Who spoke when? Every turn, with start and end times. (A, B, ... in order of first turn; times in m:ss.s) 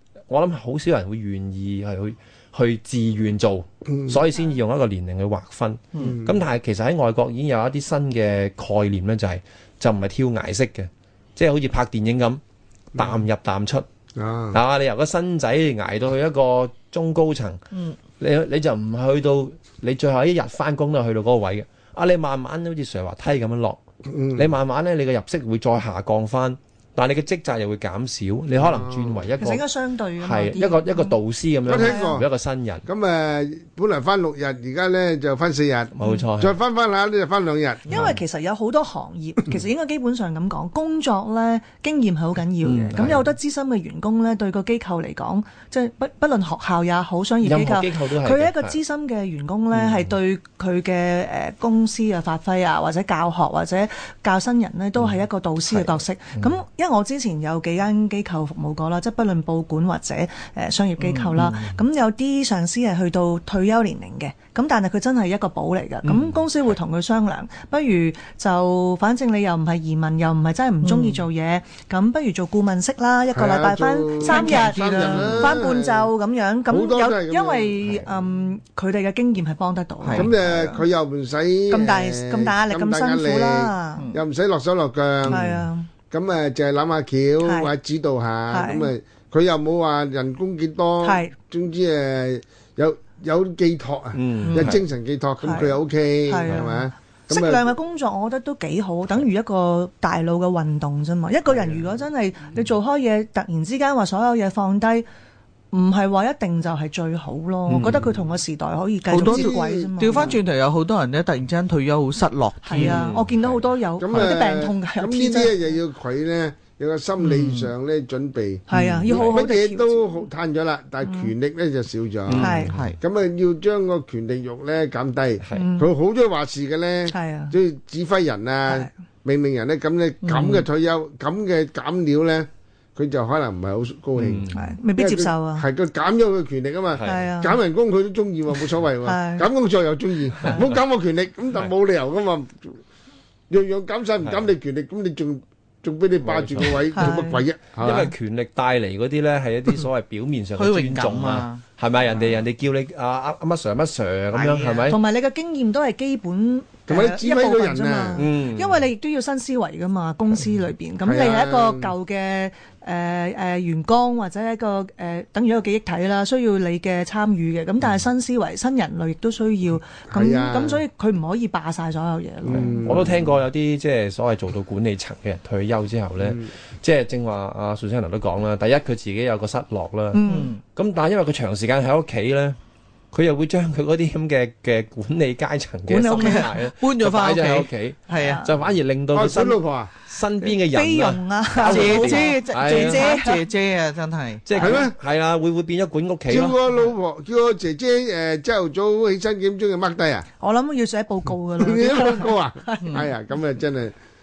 0:00.3-0:12.4 A
0:06.0-0:06.3 B
0:12.9-0:13.8 A
0:14.2-0:14.6 B
0:14.5-0:17.6 A
0:18.2-0:23.8 A
0:24.1-0:24.5 B
0:24.4-0:29.7 A
0:28.6-0:29.3 B
0:29.4-0:31.2 C
0:30.2-0:32.8 A
0:31.6-0:32.3 B
0:31.8-0:32.2 C
0:32.8-0:38.0 B
0:36.0-0:36.6 A
0:37.9-1:20.3 C
0:37.9-0:38.2 A
0:42.6-0:43.2 A
0:43.0-0:43.2 B
0:47.4-0:48.8 A
0:49.8-0:50.1 A
0:55.7-0:56.4 A
1:01.0-1:01.3 D
1:01.5-1:01.8 A
1:10.8-1:11.2 D
1:13.3-1:16.1 B
1:14.2-1:15.6 D
1:16.7-1:18.2 B
1:20.0-1:20.7 D
1:20.1-1:25.4 B
1:21.7-1:24.0 C
1:24.0-1:24.2 D
1:25.3-1:25.9 C
1:25.3-1:25.6 A
1:26.1-1:37.7 B
1:27.4-1:27.7 C
1:28.5-1:28.9 C
1:31.0-1:31.3 C
1:34.1-1:34.8 A
1:34.4-1:34.8 D
1:35.4-1:45.1 C
1:41.5-1:42.1 B
1:45.7-1:50.4 C
1:47.7-1:48.1 A
1:47.8-1:48.2 B
1:49.1-1:50.4 B
1:49.1-1:53.0 D
1:52.6-1:55.8 C
1:52.8-1:53.6 A
1:54.0-2:22.8 B
1:57.2-1:57.7 D
1:58.7-2:00.1 C
1:58.7-1:59.4 A
2:01.0-2:01.3 C
2:02.3-2:02.8 A
2:02.4-2:02.8 C
2:02.5-2:03.0 D
2:05.5-2:05.9 C
2:07.1-2:07.6 C
2:10.2-2:10.6 D
2:14.2-2:14.7 A
2:14.5-2:15.7 C
2:17.0-2:17.2 A
2:17.0-2:17.6 C
2:19.0-2:19.5 C
2:23.5-2:28.1 B
2:24.2-2:24.5 A
2:26.2-2:26.9 A
2:26.9-2:27.4 C
2:27.8-2:35.0 A
2:30.6-2:31.6 D
2:34.3-2:34.9 D
2:34.9-2:53.0 C
2:36.9-2:38.2 B
2:38.2-2:38.9 A
2:41.0-2:41.9 B
2:50.1-2:50.8 B
2:52.4-2:53.3 B
2:52.6-3:00.2 A
2:56.2-2:56.5 B
3:00.1-3:00.5 C
3:00.3-3:00.6 D
3:00.7-3:02.6 A
3:03.1-3:13.1 A
3:05.9-3:06.6 C
3:06.2-3:08.4 D
3:08.1-3:08.5 C
3:09.1-3:09.9 B
3:10.4-3:13.4 C
3:11.6-3:14.4 D
3:14.4-3:16.6 A
3:14.6-3:15.0 B
3:16.3-3:20.3 B
3:20.4-3:23.0 C
3:21.6-3:24.0 B
3:22.8-3:23.1 D